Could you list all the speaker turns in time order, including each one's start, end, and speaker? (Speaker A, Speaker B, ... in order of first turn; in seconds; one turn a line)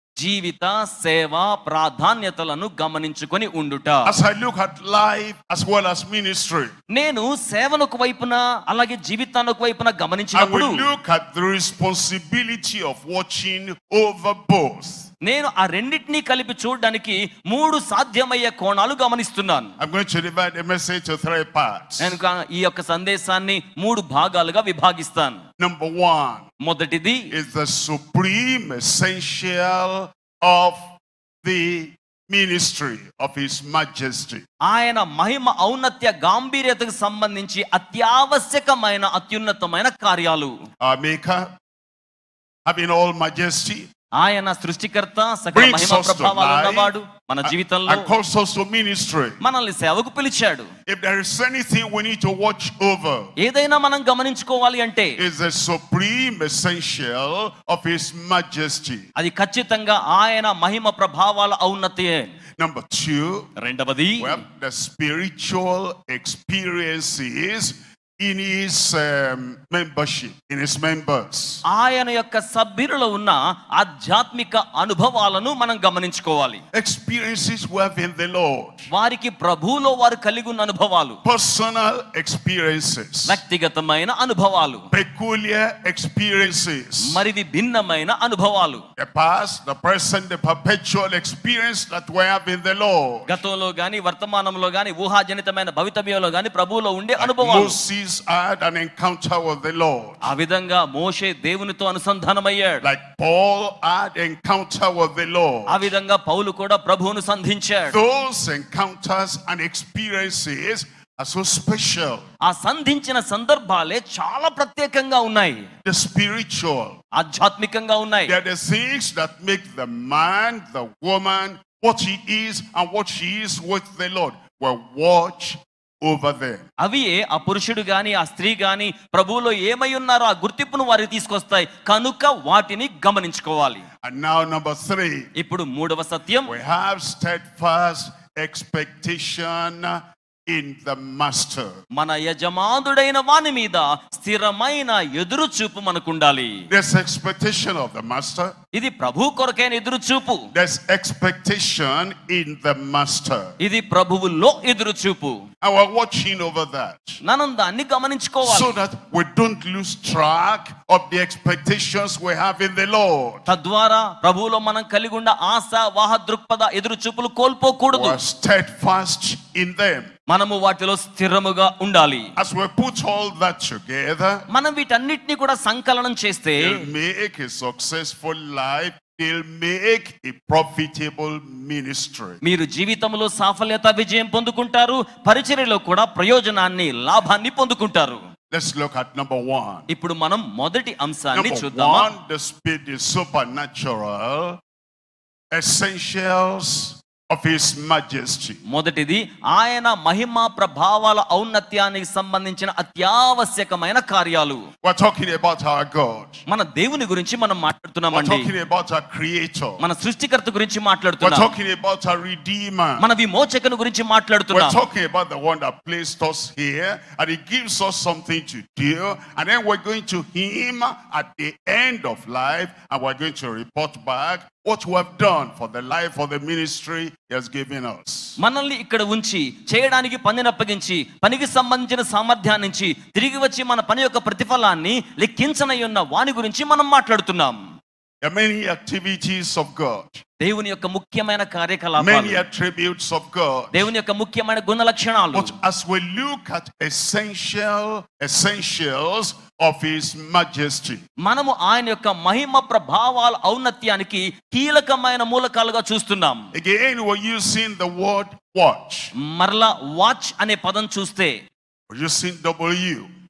Speaker A: 0.2-4.1
Speaker B: 4.0-6.7
Speaker A: 6.9-10.9
Speaker B: 10.3-15.1
Speaker A: 15.2-19.7
Speaker B: 19.8-22.2
Speaker A: 22.0-25.4
Speaker B: 25.6-26.5
Speaker A: 26.6-27.3
Speaker B: 27.3-30.8
Speaker B: 31.4-34.5
Speaker A: 34.6-40.5
Speaker B: 40.8-41.5
Speaker B: 42.7-43.9
Speaker A: 44.2-48.1
Speaker B: 45.5-46.9
Speaker B: 47.4-49.4
Speaker A: 49.4-50.7
Speaker B: 50.9-53.3
Speaker A: 53.4-55.2
Speaker B: 55.2-59.1
Speaker A: 59.2-62.3
Speaker B: 62.6-63.5
Speaker A: 63.6-64.4
Speaker B: 64.2-71.6
Speaker A: 71.7-76.6
Speaker B: 76.7-78.9
Speaker A: 78.9-81.2
Speaker B: 81.2-83.4
Speaker A: 83.3-84.9
Speaker B: 84.9-87.2
Speaker A: 87.0-88.8
Speaker B: 89.0-93.4
Speaker A: 93.3-97.8
Speaker B: 97.2-100.3
Speaker A: 100.2-102.8
Speaker B: 102.8-105.9
Speaker A: 105.7-108.0
Speaker B: 107.9-112.3
Speaker A: 112.4-115.7
Speaker B: 115.8-117.0
Speaker A: 117.1-118.3
Speaker B: 118.3-126.7
Speaker A: 126.8-133.8
Speaker B: 134.0-135.3
Speaker A: 135.4-136.5
Speaker B: 136.5-141.7
Speaker A: 141.9-146.6
Speaker B: 146.7-148.6
Speaker A: 148.7-150.5
Speaker B: 150.5-153.6
Speaker A: 153.6-155.4
Speaker B: 155.6-157.2
Speaker A: 157.2-158.8
Speaker B: 158.4-163.5
Speaker A: 163.5-168.2
Speaker B: 167.9-170.1
Speaker A: 170.3-172.3
Speaker B: 172.4-174.4
Speaker A: 174.5-176.8
Speaker B: 176.6-182.4
Speaker A: 182.4-188.2
Speaker B: 188.5-189.9
Speaker A: 189.9-192.1
Speaker B: 191.3-194.6
Speaker B: 195.5-198.6
Speaker A: 198.7-204.7
Speaker B: 204.8-206.4
Speaker A: 206.5-208.5
Speaker B: 208.1-209.8
Speaker A: 209.8-211.5
Speaker B: 211.2-213.0
Speaker A: 213.0-214.8
Speaker B: 214.5-228.4
Speaker A: 228.4-237.6
Speaker B: 238.2-240.2
Speaker A: 240.4-242.4
Speaker B: 242.0-243.9
Speaker A: 243.7-245.5
Speaker B: 245.3-251.1
Speaker A: 251.2-256.4
Speaker B: 256.5-259.1
Speaker A: 259.2-261.4
Speaker B: 261.9-263.1